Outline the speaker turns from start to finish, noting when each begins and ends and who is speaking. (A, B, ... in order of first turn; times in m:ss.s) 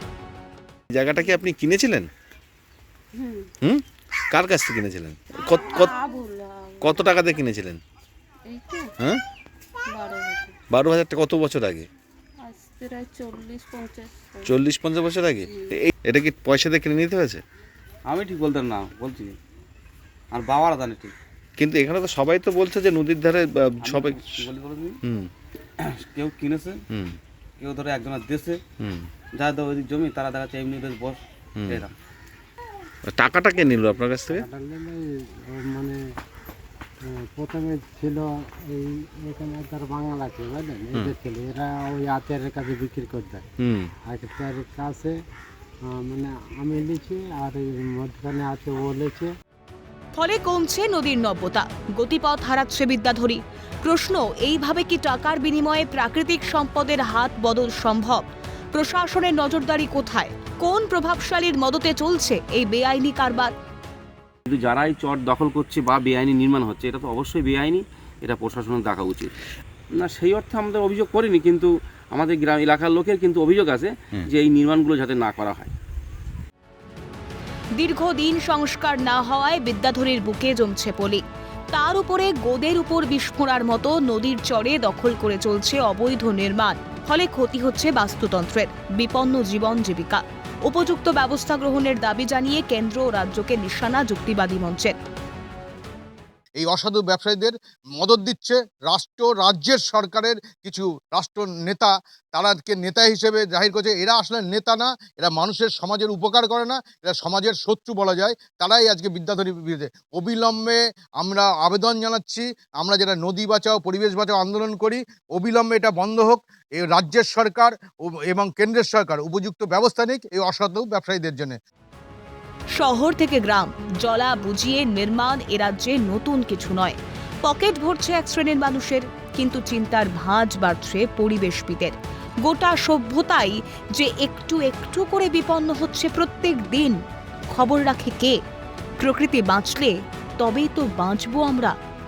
0:00.9-0:02.1 A
0:03.2-0:03.5 B
0:03.6-0:06.0 A
0:05.7-0:07.1 B
0:06.8-0:07.8 A
0:08.5-0:08.9 B
0:09.9-0:10.6 B
0:10.7-0:11.9 A
0:12.4-0:14.5 B
0:14.4-0:17.4 A
0:18.1-0:19.4 C
0:20.3-0:21.1 C
0:21.6-0:24.4 A
0:23.8-0:25.0 C
0:25.0-0:25.3 A
0:25.8-0:26.8 C
0:26.9-0:27.2 A
0:27.6-0:28.6 C
0:28.8-0:29.1 A
0:29.4-0:31.9 C
0:31.6-0:31.8 A
0:33.1-0:34.4 A
0:34.3-0:36.0 D
0:37.0-0:43.4 D
0:43.6-0:43.9 A
0:44.0-0:45.2 D
0:45.9-0:49.3 D
0:50.2-1:03.5 E
1:04.5-1:09.3 C
1:10.0-1:15.7 C
1:17.8-1:35.0 E
1:36.6-2:01.6 F
2:02.8-2:17.0 E
2:17.5-2:18.4 E
2:19.0-2:21.7 E